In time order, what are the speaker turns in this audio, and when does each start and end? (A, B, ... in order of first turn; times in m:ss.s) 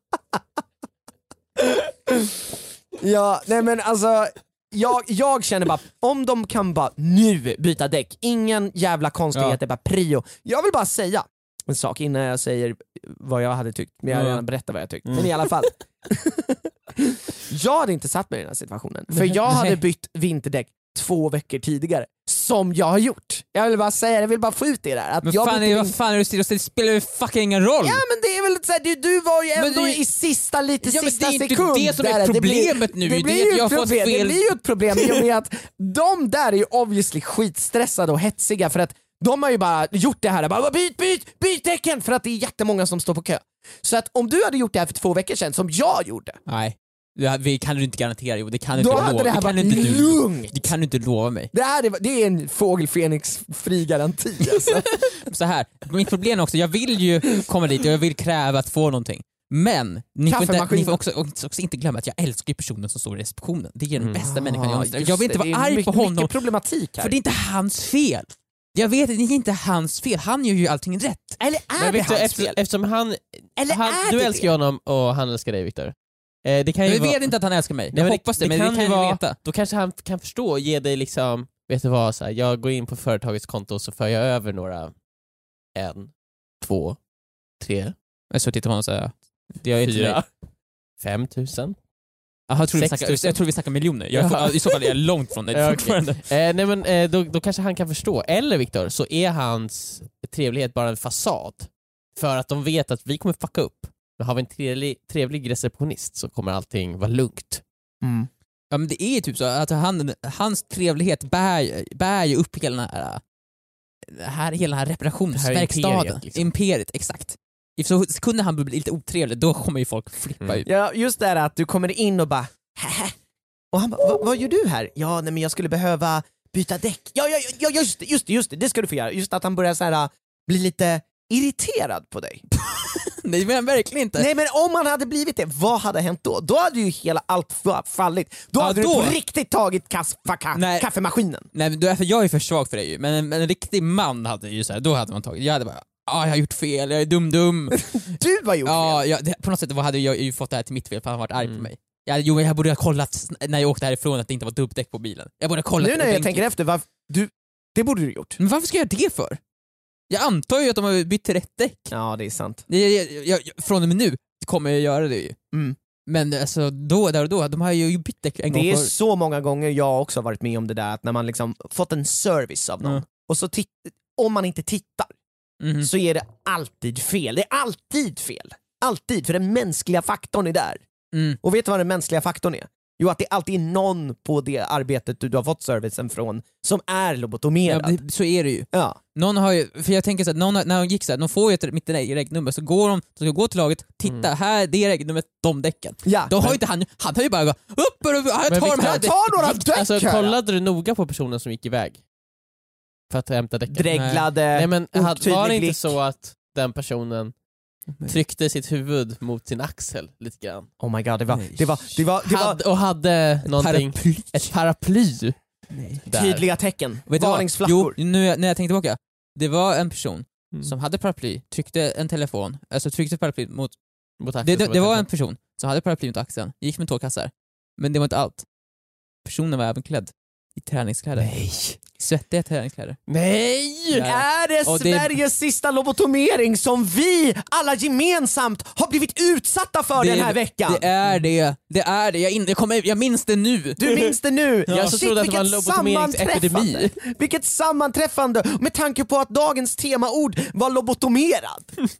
0:01.6-0:26.0 A
0:14.1-0:14.4 B
0:19.1-0:19.4 C
0:19.5-0:19.8 B
0:25.2-0:28.0 B
0:27.8-0:46.4 A
0:29.6-0:30.0 B
0:30.8-0:34.5 B
0:46.5-0:51.5 B
0:48.8-0:50.7 A
0:51.5-0:54.9 A
0:54.5-1:06.3 B
1:00.3-1:01.0 A
1:04.0-1:04.2 C
1:04.2-1:07.2 A
1:07.0-1:11.4 B
1:11.4-1:12.6 A
1:11.8-1:17.3 C
1:13.6-1:14.5 A
1:16.8-1:19.4 B
1:17.9-1:24.9 C
1:25.8-1:27.0 C
1:27.6-1:27.9 C
1:28.3-1:30.2 B
1:29.8-1:30.3 C
1:31.0-1:31.8 C
1:32.5-1:36.2 B
1:32.8-1:33.4 C
1:34.1-1:35.0 C
1:35.5-1:47.6 C
1:48.0-1:48.3 A
1:48.7-1:53.2 B
1:54.1-2:00.7 B
1:55.3-1:56.5 C
2:00.7-2:03.1 A
2:03.7-2:12.4 A
2:12.5-2:14.3 B
2:14.2-2:21.5 A
2:18.6-2:19.2 B
2:20.6-2:20.9 B
2:21.5-2:36.4 B
2:27.7-2:29.0 A
2:35.8-2:38.4 A
2:38.4-2:39.4 B
2:40.1-2:41.9 B
2:41.9-2:42.6 A
2:42.7-2:45.4 B
2:46.1-2:48.9 B
2:48.5-2:55.1 A
2:55.6-2:55.9 B
2:55.8-3:00.8 A
3:01.1-3:01.4 B
3:01.4-3:08.0 A
3:07.7-3:19.6 B
3:08.7-3:09.0 A
3:16.0-3:16.6 A
3:18.5-3:19.0 C
3:18.8-3:20.4 A
3:19.7-3:22.0 C
3:23.1-3:27.4 C
3:23.7-3:25.9 A
3:23.9-3:24.3 B
3:28.0-3:30.7 C
3:30.8-3:32.6 A
3:31.3-3:35.2 C
3:33.5-3:36.0 B
3:36.0-3:38.0 A
3:36.1-3:36.4 C
3:37.1-3:43.8 B
3:44.2-3:45.1 C
3:44.4-3:48.5 B
3:49.2-3:53.0 B
3:51.2-3:51.8 C
3:53.1-3:54.1 C
3:53.9-3:55.2 B
3:54.0-4:00.9 A
4:00.0-4:03.8 B
4:03.8-4:11.7 A
4:04.7-4:06.9 C